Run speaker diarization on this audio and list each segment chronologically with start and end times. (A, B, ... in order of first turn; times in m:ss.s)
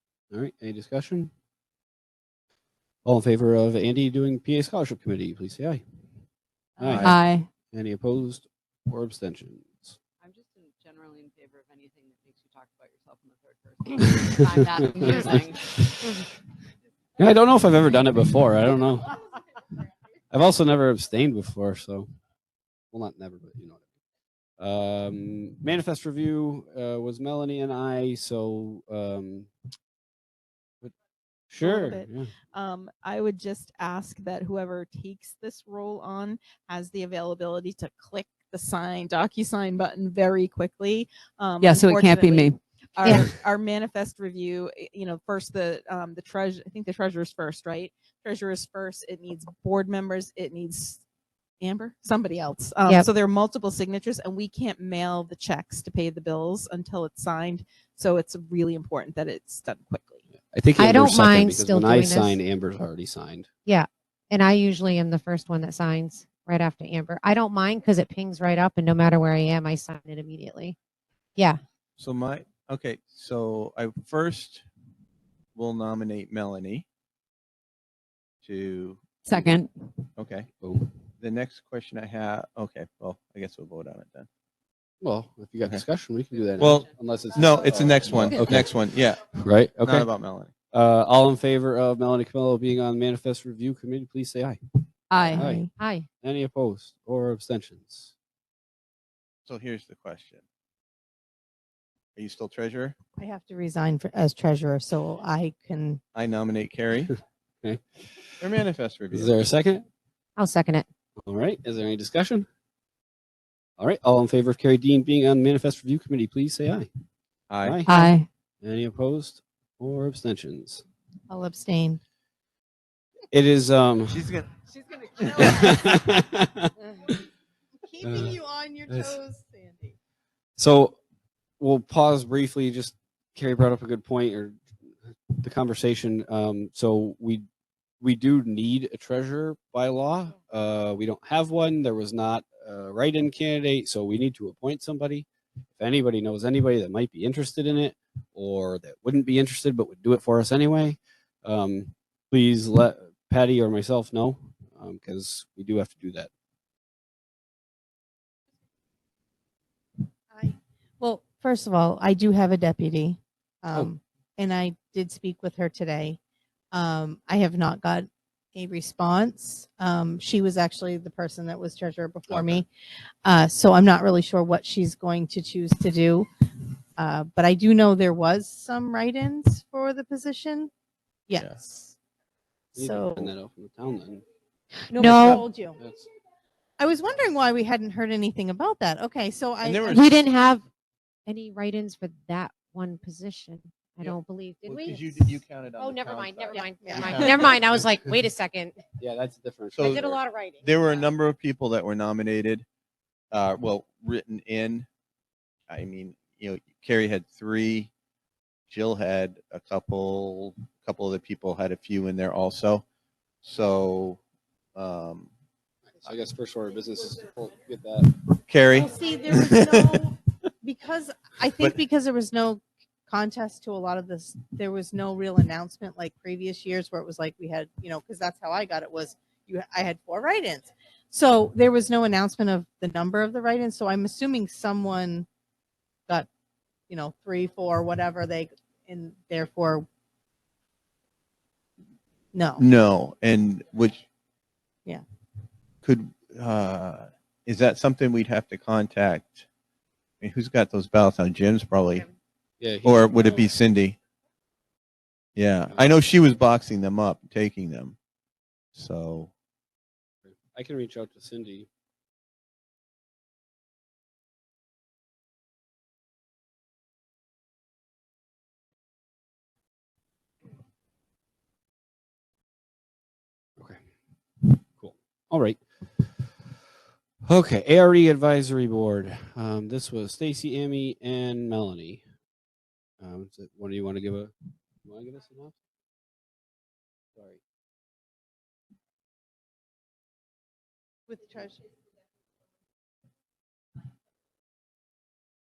0:00.3-0:01.3 A
0:03.0-0:05.8 A
0:06.8-0:07.2 A
0:06.8-0:07.1 B
0:06.9-0:07.1 C
0:07.0-0:07.5 D
0:07.7-0:10.0 A
0:10.2-0:15.8 E
0:14.2-0:16.2 A
0:17.2-0:19.2 A
0:20.3-0:22.1 A
0:22.9-0:23.8 A
0:24.6-0:29.5 A
0:31.5-0:32.3 A
0:31.6-0:51.0 F
0:41.6-0:42.6 D
0:51.6-1:00.2 F
1:00.5-1:03.5 A
1:00.8-1:02.4 G
1:03.6-1:10.8 G
1:12.0-1:14.6 C
1:15.5-1:16.8 C
1:18.4-1:19.0 C
1:19.2-1:19.7 D
1:20.2-1:20.5 C
1:20.6-1:20.9 A
1:21.2-1:24.3 C
1:25.0-1:30.1 A
1:26.6-1:29.2 C
1:29.8-1:30.5 C
1:30.7-1:34.8 A
1:35.1-1:35.5 D
1:35.3-1:35.7 A
1:35.3-1:35.7 B
1:35.8-1:36.0 G
1:36.2-1:38.1 A
1:39.4-1:40.4 C
1:42.2-1:43.0 C
1:43.2-1:46.0 B
1:46.1-1:47.1 C
1:47.6-1:48.1 A
1:48.4-1:49.3 C
1:49.1-1:49.8 A
1:50.4-1:50.8 G
1:51.2-1:52.5 A
1:53.8-1:56.9 A
1:57.5-1:57.8 C
1:57.6-1:57.9 A
1:57.8-1:58.3 D
1:58.6-2:00.8 A
2:01.3-2:02.0 B
2:03.3-2:04.3 A
2:04.1-2:04.6 C
2:05.4-2:06.7 A
2:07.8-2:09.9 B
2:08.0-2:08.4 A
2:08.9-2:09.2 A
2:10.6-2:11.0 A
2:11.6-2:14.8 A
2:15.4-2:17.4 A
2:18.0-2:36.3 A
2:40.3-2:46.2 B
2:46.7-2:52.7 B
2:52.3-2:52.6 C
2:53.2-2:56.3 B
2:57.0-3:00.7 B
3:01.3-3:01.9 B
3:02.7-3:03.3 B
3:02.7-3:04.2 A
3:04.9-3:05.8 B
3:04.9-3:05.4 G
3:05.0-3:05.4 C
3:05.8-3:06.1 A
3:06.8-3:09.9 B
3:09.6-3:10.3 C
3:09.9-3:10.6 G
3:11.2-3:18.8 G
3:14.0-3:17.6 C
3:16.8-3:17.3 B
3:19.0-3:20.2 A
3:19.8-3:20.1 C
3:19.8-3:21.0 G
3:20.6-3:22.6 C
3:23.3-3:24.9 C
3:25.7-3:27.9 C
3:28.7-3:32.8 C
3:33.4-3:34.2 C
3:34.7-3:35.3 C
3:36.0-3:38.1 A
3:38.5-3:40.0 C
3:38.7-3:55.2 B
3:56.9-3:59.8 B
4:02.3-4:02.6 B
4:02.6-4:04.0 C
4:05.8-4:09.4 C
4:10.2-4:12.1 C
4:12.6-4:13.5 A
4:12.8-4:14.0 C
4:15.4-4:18.0 C
4:18.7-4:19.3 C
4:20.2-4:21.7 A
4:33.6-4:33.8 A
4:34.4-4:36.3 A
4:37.2-4:42.0 A
4:43.0-4:45.6 A
4:51.1-4:51.6 B